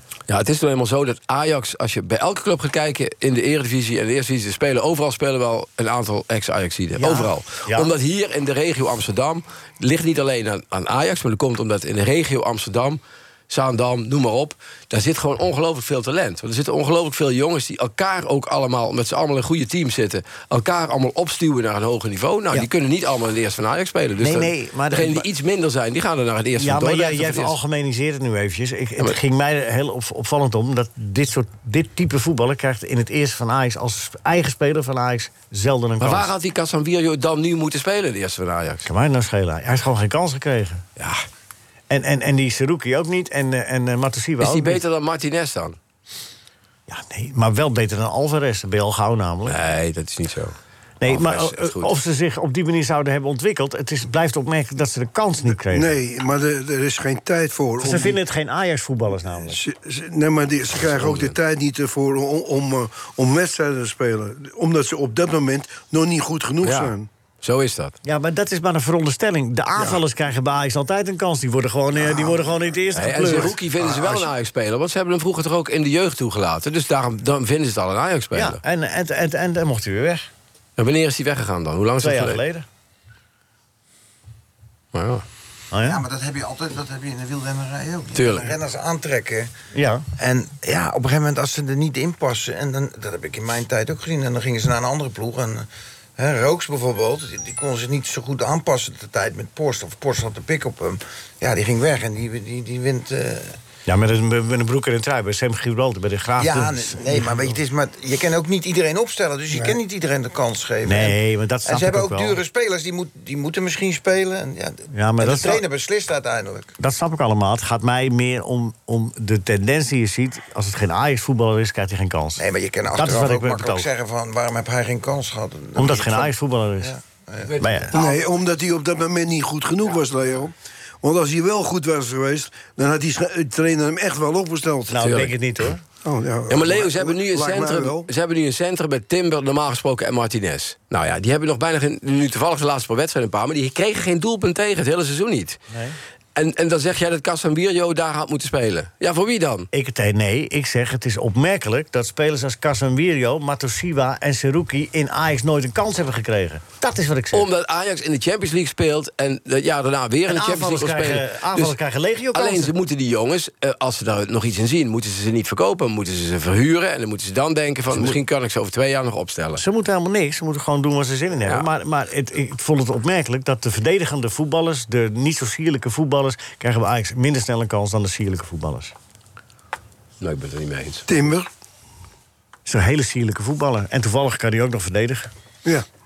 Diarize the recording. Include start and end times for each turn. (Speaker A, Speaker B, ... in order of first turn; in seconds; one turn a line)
Speaker A: 0.3-27.6
Speaker B: 7.0-7.9
Speaker B: 24.2-25.3
Speaker B: 26.6-36.3
Speaker A: 36.0-38.9
Speaker B: 38.9-40.9
Speaker B: 41.9-44.8
Speaker A: 44.4-45.8
Speaker B: 46.9-49.6
Speaker A: 49.5-51.9
Speaker B: 51.0-55.9
Speaker C: 55.7-58.2
Speaker B: 57.8-59.6
Speaker C: 59.5-67.1
Speaker A: 60.8-61.4
Speaker A: 66.6-68.0
Speaker B: 68.0-73.5
Speaker C: 72.0-72.5
Speaker A: 72.9-78.6
Speaker C: 73.8-74.3
Speaker B: 78.3-80.3
Speaker A: 80.8-82.4
Speaker B: 82.0-82.7
Speaker A: 84.9-85.2
Speaker B: 85.7-86.0
Speaker D: 85.8-89.5
Speaker A: 88.2-88.5
Speaker B: 89.7-90.1
Speaker D: 90.2-103.6
Speaker B: 103.9-107.3
Speaker D: 106.4-116.7
Speaker B: 110.9-112.4
Speaker B: 114.9-115.6
Speaker B: 116.8-122.4
Speaker D: 122.4-127.5
Speaker B: 123.0-123.9
Speaker B: 125.8-126.9
Speaker A: 127.5-128.1
Speaker B: 127.6-127.9
Speaker C: 127.9-135.1
Speaker B: 134.9-135.8
Speaker A: 135.0-135.3
Speaker C: 136.0-138.1
Speaker A: 136.5-145.6
Speaker B: 145.7-146.0
Speaker A: 146.3-149.7
Speaker B: 149.7-157.5
Speaker A: 157.3-161.8
Speaker B: 160.3-162.7
Speaker A: 162.3-169.6
Speaker B: 167.9-168.2
Speaker B: 169.6-178.9
Speaker A: 180.2-181.1
Speaker C: 181.1-181.5
Speaker B: 182.7-185.3